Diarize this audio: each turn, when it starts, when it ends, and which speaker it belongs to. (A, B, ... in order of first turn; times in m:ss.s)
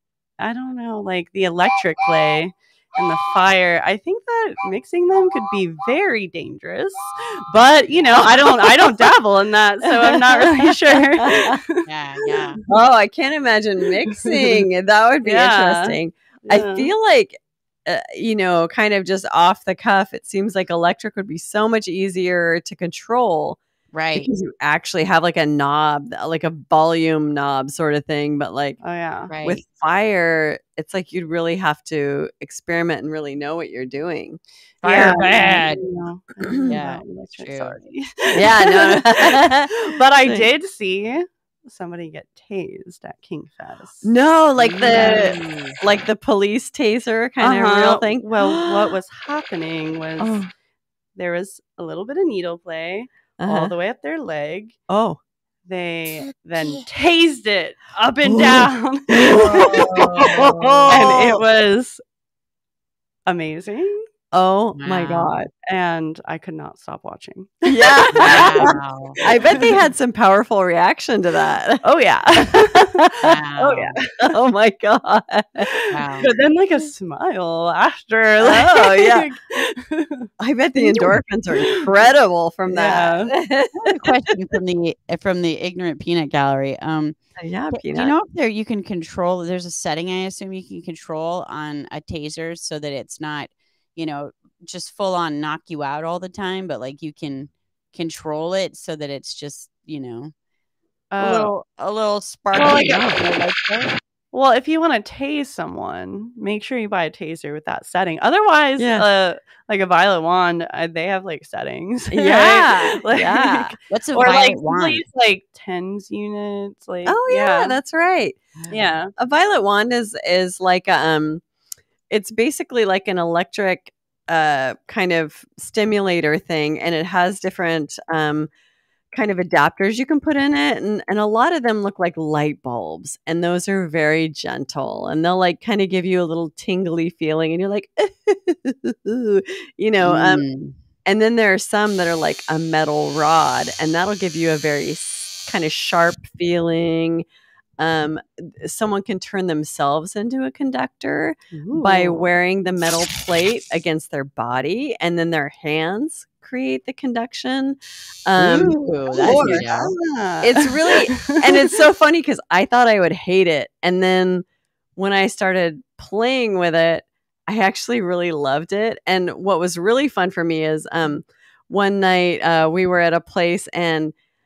0:00.4-0:12.6 A
0:07.9-0:08.3 B
0:10.1-0:10.7 C
0:11.3-0:11.5 C
0:11.9-0:12.6 B
0:12.7-0:23.6 C
0:15.2-0:16.9 A
0:23.9-0:24.3 B
0:24.2-0:28.8 C
0:28.8-0:29.3 A
0:29.3-0:29.6 B
0:29.4-0:34.4 C
0:34.8-0:35.8 B
0:34.8-0:44.1 A
0:34.9-0:35.4 C
0:36.7-0:37.8 B
0:38.3-0:39.7 C
0:44.0-0:48.9 C
0:44.6-0:45.3 B
0:44.8-0:45.7 A
0:47.4-0:50.5 A
0:50.2-0:50.5 C
0:51.2-0:54.8 A
0:53.4-0:53.7 C
0:54.9-0:55.2 C
0:55.7-1:00.3 A
0:58.3-0:58.6 C
0:59.1-1:01.4 C
0:59.3-1:01.0 B
1:00.9-1:02.0 A
1:03.3-1:04.1 A
1:04.3-1:05.5 C
1:04.8-1:05.4 B
1:05.6-1:09.7 A
1:07.7-1:11.8 C
1:08.2-1:09.2 B
1:11.8-1:12.9 A
1:12.4-1:12.7 C
1:13.2-1:14.0 B
1:13.6-1:15.7 C
1:15.9-1:16.3 B
1:16.2-1:21.7 A
1:18.4-1:19.3 C
1:20.4-1:24.0 C
1:22.7-1:23.3 A
1:23.8-1:27.2 B
1:27.4-1:28.1 C
1:27.7-1:40.3 B
1:41.1-1:41.5 A
1:41.2-1:44.0 B
1:42.6-1:43.2 C
1:44.3-1:57.8 A
1:48.8-1:49.1 C
1:52.1-1:53.7 C
1:53.9-1:55.1 B
1:57.0-1:58.4 C
1:58.7-1:59.1 A
1:59.2-2:01.4 C
2:02.1-2:08.5 C
2:09.1-2:20.4 C
2:20.0-2:20.8 B
2:21.0-2:27.2 C
2:27.8-2:39.7 C
2:31.5-2:32.3 A
2:38.4-2:39.9 B
2:39.2-2:41.6 A
2:40.4-2:44.4 C
2:45.0-2:54.1 C